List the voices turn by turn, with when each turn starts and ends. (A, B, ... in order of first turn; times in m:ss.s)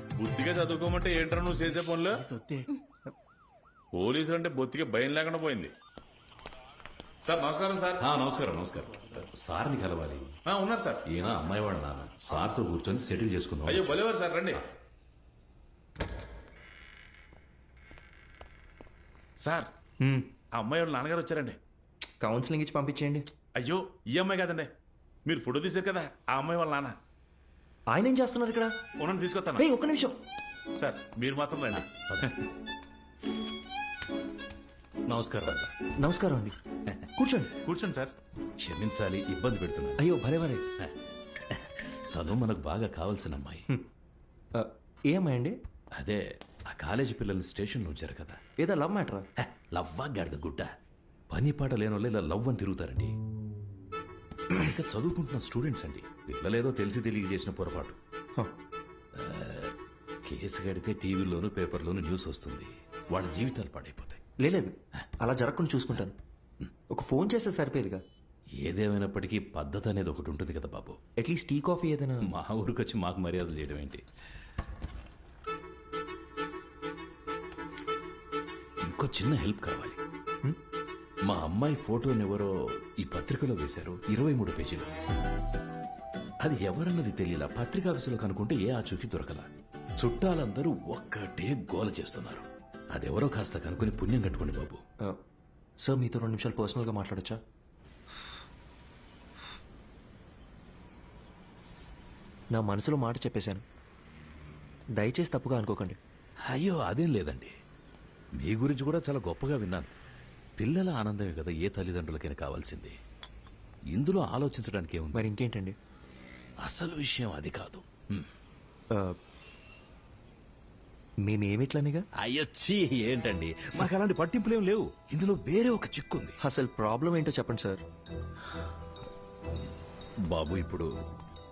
0:00.2-0:02.2 A
0:02.2-0:02.7 B
0:03.9-0:05.7 A
0:07.2-0:08.0 A
0:08.0-0:10.3 C
0:10.4-0:11.0 A
0:11.1-0:14.0 C
0:13.6-0:14.6 A
0:19.4-0:19.7 A
0:20.0-0:20.3 B
0:20.5-0:21.6 A
0:22.2-0:23.2 B
0:23.5-0:24.7 A
0:25.2-0:27.0 A
0:27.9-0:28.7 B
0:29.0-0:29.6 A
0:29.6-0:30.2 B
0:30.7-0:32.3 A
0:31.7-0:32.4 C
0:35.1-0:35.6 A
0:36.0-0:36.6 B
0:37.2-0:37.5 B
0:37.6-0:38.1 A
0:38.6-0:40.0 C
0:40.0-0:40.7 B
0:41.5-0:43.6 C
0:44.6-0:45.6 B
0:46.0-0:48.4 C
0:48.6-0:49.3 B
0:49.4-0:50.7 C
0:51.3-0:53.1 C
0:54.5-0:58.0 C
0:59.2-0:59.7 C
1:00.2-1:04.2 C
1:04.4-1:06.2 B
1:06.9-1:08.0 B
1:08.6-1:11.0 C
1:11.2-1:12.3 B
1:12.2-1:14.0 C
1:18.8-1:20.0 C
1:21.3-1:24.9 C
1:26.4-1:29.5 C
1:30.0-1:34.8 C
1:35.8-1:37.4 B
1:42.5-1:43.6 B
1:45.0-1:46.0 B
1:46.5-1:47.5 C
1:48.4-1:49.9 C
1:50.6-1:53.0 C
1:53.9-1:55.2 C
1:55.1-1:55.8 B
1:56.6-1:58.3 C
2:01.2-2:02.0 B
2:02.2-2:06.4 C
2:06.4-2:07.8 B
2:10.3-2:10.9 C